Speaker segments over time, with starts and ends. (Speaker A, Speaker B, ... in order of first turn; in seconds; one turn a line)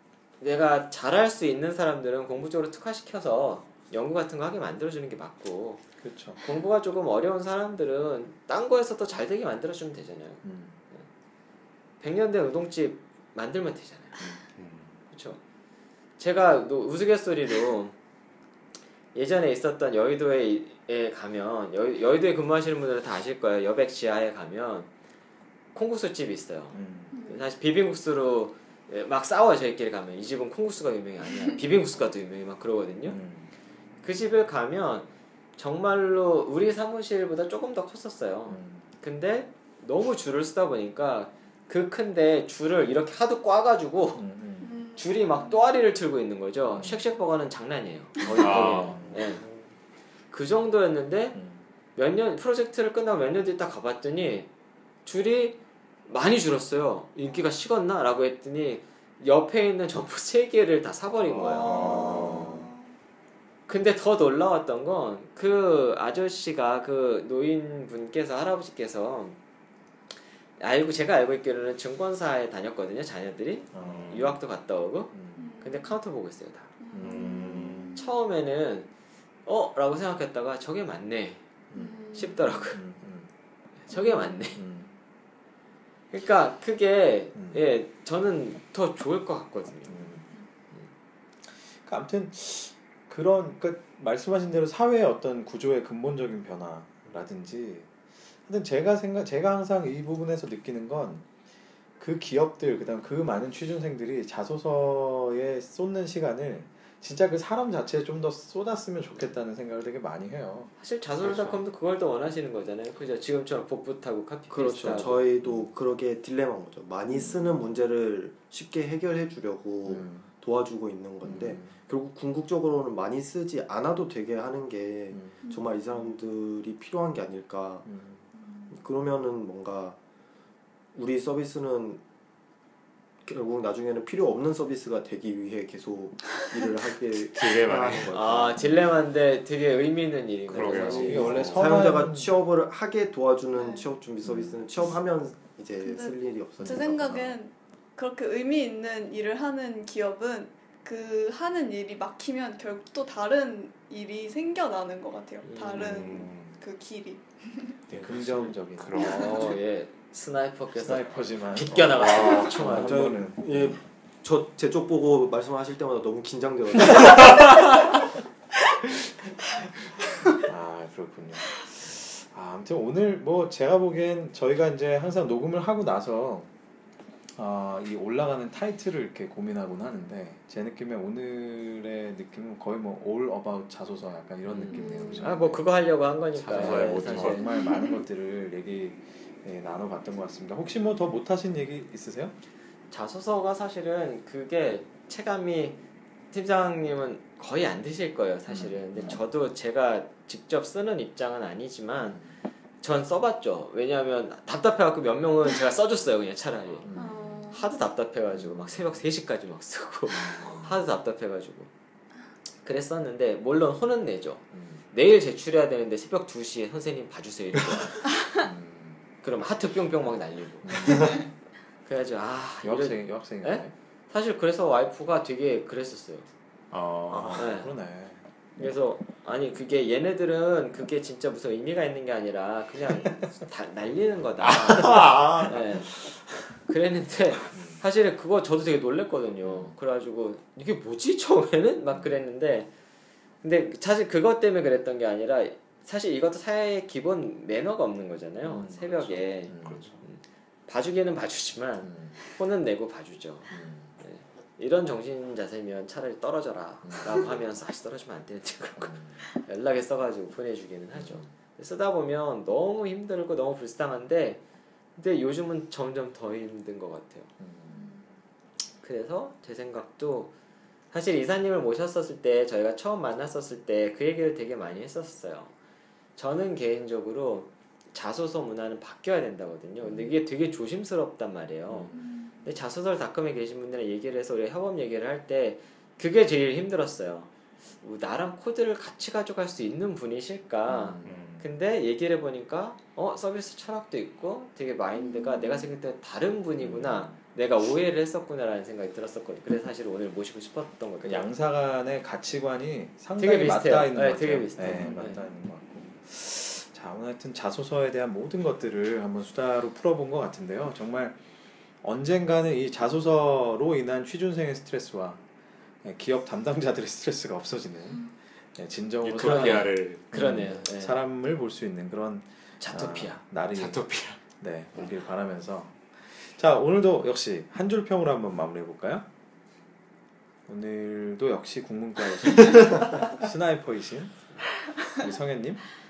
Speaker A: 0.4-5.8
Speaker B: 6.0-6.4
Speaker A: 6.4-11.0
Speaker B: 10.4-10.8
Speaker A: 12.0-14.2
Speaker C: 14.6-14.9
Speaker A: 15.1-15.4
Speaker A: 16.2-17.9
Speaker A: 19.1-24.9
Speaker A: 25.7-33.2
Speaker B: 26.7-27.2
Speaker D: 27.1-27.4
Speaker B: 33.1-33.5
Speaker A: 34.0-44.2
Speaker B: 38.5-38.9
Speaker B: 44.2-44.8
Speaker D: 44.6-45.5
Speaker A: 45.0-49.4
Speaker B: 46.7-47.1
Speaker B: 48.3-49.2
Speaker C: 48.4-49.1
Speaker A: 50.3-51.4
Speaker B: 51.3-51.6
Speaker A: 52.0-54.5
Speaker A: 55.0-62.4
Speaker D: 61.4-62.7
Speaker B: 61.5-62.6
Speaker C: 61.7-62.6
Speaker A: 63.7-69.4
Speaker A: 70.6-76.7
Speaker B: 73.7-74.4
Speaker C: 73.8-74.3
Speaker B: 75.1-75.5
Speaker D: 75.3-75.9
Speaker D: 76.8-78.0
Speaker B: 76.9-78.0
Speaker C: 77.0-77.8
Speaker A: 77.9-78.9
Speaker A: 79.5-81.4
Speaker B: 81.7-83.3
Speaker D: 81.7-82.4
Speaker A: 82.1-82.8
Speaker A: 83.9-84.6
Speaker B: 84.0-84.9
Speaker A: 86.1-90.0
Speaker B: 87.3-87.6
Speaker B: 89.9-90.3
Speaker B: 91.7-101.3
Speaker B: 102.0-110.7
Speaker A: 110.8-115.2
Speaker C: 111.2-111.6
Speaker E: 114.5-127.9
Speaker B: 114.6-115.7
Speaker B: 117.1-117.6
Speaker B: 119.8-120.3
Speaker B: 121.2-121.8
Speaker B: 125.1-125.4
Speaker D: 125.4-125.8
Speaker B: 127.9-128.2
Speaker E: 128.7-130.0
Speaker E: 130.9-132.0
Speaker E: 133.2-138.7
Speaker C: 137.3-138.1
Speaker A: 138.1-141.5
Speaker C: 140.5-141.7
Speaker E: 140.5-147.4
Speaker B: 140.9-142.3
Speaker D: 143.6-143.8
Speaker B: 144.2-144.6
Speaker D: 145.8-157.8
Speaker A: 155.4-156.0
Speaker C: 155.7-156.6
Speaker C: 157.9-159.6
Speaker B: 157.9-159.3
Speaker A: 158.9-163.2
Speaker B: 160.7-163.8
Speaker C: 161.8-163.1
Speaker E: 162.7-167.6
Speaker B: 170.3-176.5
Speaker B: 177.3-185.7
Speaker A: 184.5-187.5
Speaker D: 184.7-185.3
Speaker C: 186.4-187.5
Speaker B: 186.4-192.3
Speaker A: 192.9-195.8
Speaker A: 196.3-202.2
Speaker B: 198.5-199.2
Speaker A: 202.8-206.9
Speaker B: 206.8-207.4
Speaker D: 206.9-207.7
Speaker A: 207.5-211.7
Speaker B: 208.3-209.0
Speaker B: 210.1-210.8
Speaker A: 212.6-218.0
Speaker B: 214.5-214.8
Speaker B: 218.4-219.1
Speaker A: 219.2-221.1
Speaker B: 220.6-221.2
Speaker A: 221.8-226.3
Speaker B: 222.6-223.7
Speaker C: 226.7-227.5
Speaker B: 227.1-228.2
Speaker A: 227.4-227.7
Speaker A: 228.6-235.9
Speaker C: 234.4-236.1
Speaker B: 234.8-235.5
Speaker A: 236.7-242.7
Speaker B: 237.5-237.8
Speaker B: 239.4-239.7
Speaker B: 241.9-242.2
Speaker A: 243.4-264.4
Speaker B: 248.4-249.9
Speaker C: 249.6-250.0
Speaker B: 251.8-252.2
Speaker B: 253.5-253.9
Speaker B: 256.8-257.4
Speaker B: 258.8-259.2
Speaker B: 260.9-261.3
Speaker A: 264.9-267.3
Speaker B: 267.4-267.9
Speaker A: 268.8-270.3
Speaker A: 270.9-275.5
Speaker A: 276.2-287.3
Speaker B: 279.8-280.1
Speaker B: 281.7-281.9
Speaker A: 287.8-301.3
Speaker B: 290.7-291.4
Speaker C: 291.1-291.4
Speaker D: 295.1-295.6
Speaker B: 296.6-297.2
Speaker B: 301.0-311.2
Speaker A: 303.2-305.2
Speaker B: 311.8-315.2
Speaker B: 315.8-323.8
Speaker C: 319.0-320.0
Speaker A: 319.1-321.0
Speaker A: 322.6-324.2
Speaker B: 324.4-329.1
Speaker B: 330.4-334.3
Speaker B: 334.9-335.6